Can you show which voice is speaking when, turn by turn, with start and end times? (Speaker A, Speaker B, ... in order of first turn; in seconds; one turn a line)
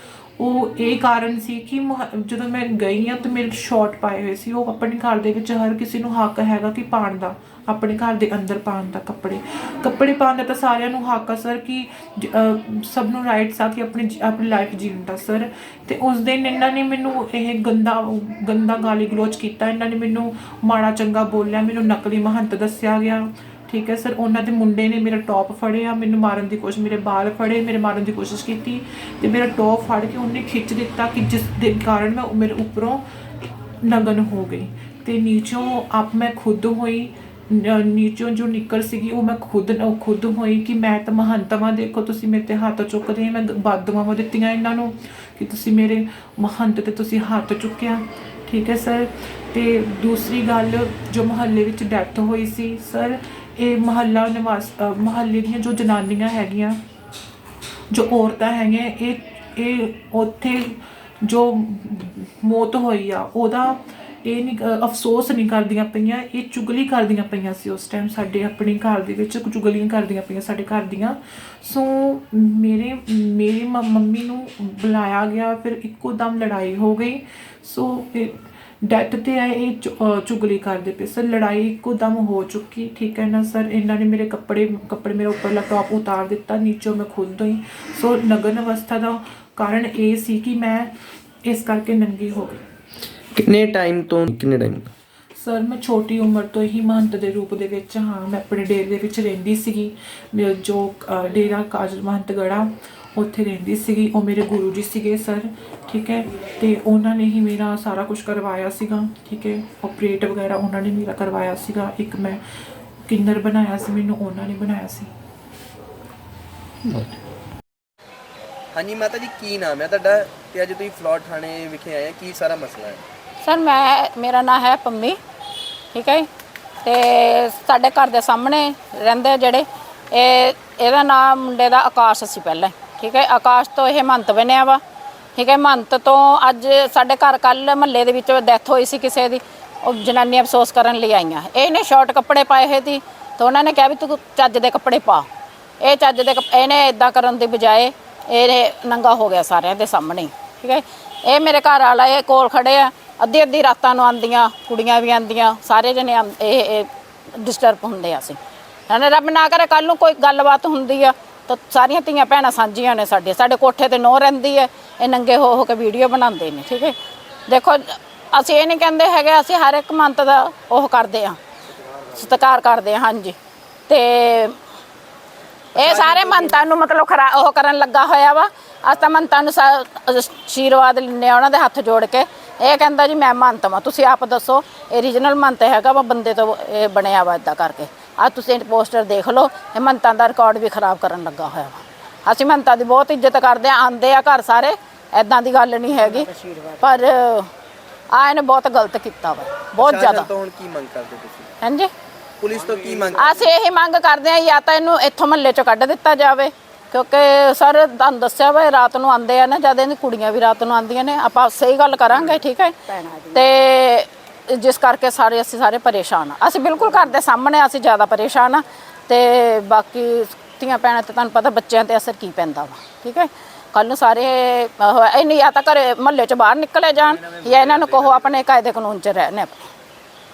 Speaker A: 0.4-33.0
Speaker A: 33.8-56.8
Speaker A: 57.9-90.9
Speaker A: 91.5-92.6
Speaker B: 93.4-94.9
Speaker A: 95.4-112.4
Speaker A: 113.1-115.1
Speaker B: 118.7-123.0
Speaker C: 123.4-125.2
Speaker C: 125.9-126.3
Speaker C: 126.8-134.8
Speaker C: 135.4-145.3
Speaker C: 145.8-167.0
Speaker C: 167.5-171.4
Speaker C: 172.1-173.4
Speaker C: 173.9-174.6
Speaker C: 175.8-197.5
Speaker C: 198.1-200.3
Speaker B: 199.8-201.5
Speaker C: 201.6-201.9
Speaker B: 202.4-203.5
Speaker C: 203.1-212.8
Speaker C: 213.3-229.7
Speaker B: 227.0-228.4